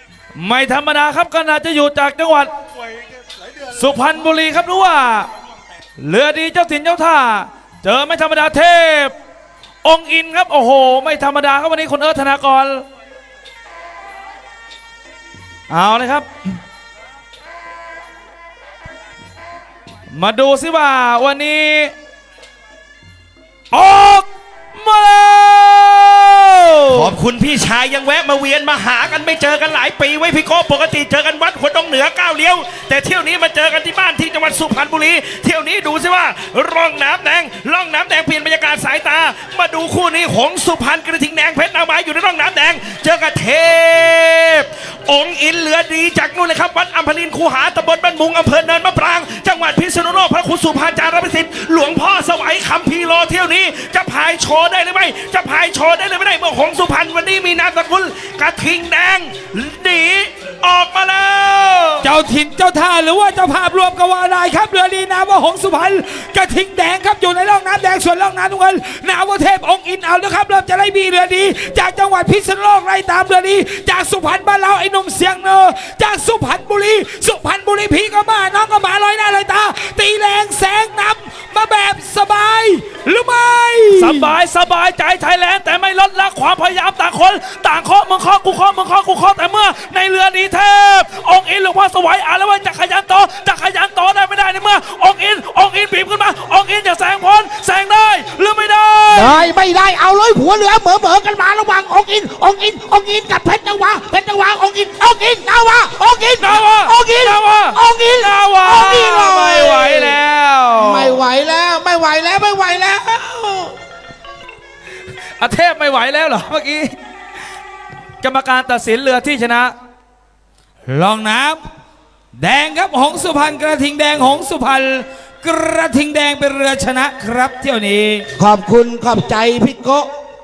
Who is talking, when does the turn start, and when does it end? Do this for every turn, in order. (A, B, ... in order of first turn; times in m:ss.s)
0:00.4-0:02.5 A
0:03.7-0:05.3 A
0:06.0-0:09.1 A
0:09.8-0:12.8 A
0:15.7-0:16.3 A
0:20.1-0:21.9 A
0:23.7-0:27.2 A
0:26.9-1:02.0 B
1:02.0-1:24.3 C
1:23.9-1:39.4 A
1:39.1-1:50.2 D
1:46.4-1:51.2 A
1:50.8-1:53.7 D
1:55.4-1:56.9 A
1:58.2-1:59.7 A
2:00.9-2:01.6 C
2:02.4-2:06.7 C
2:06.4-2:08.2 A
2:08.4-2:10.1 D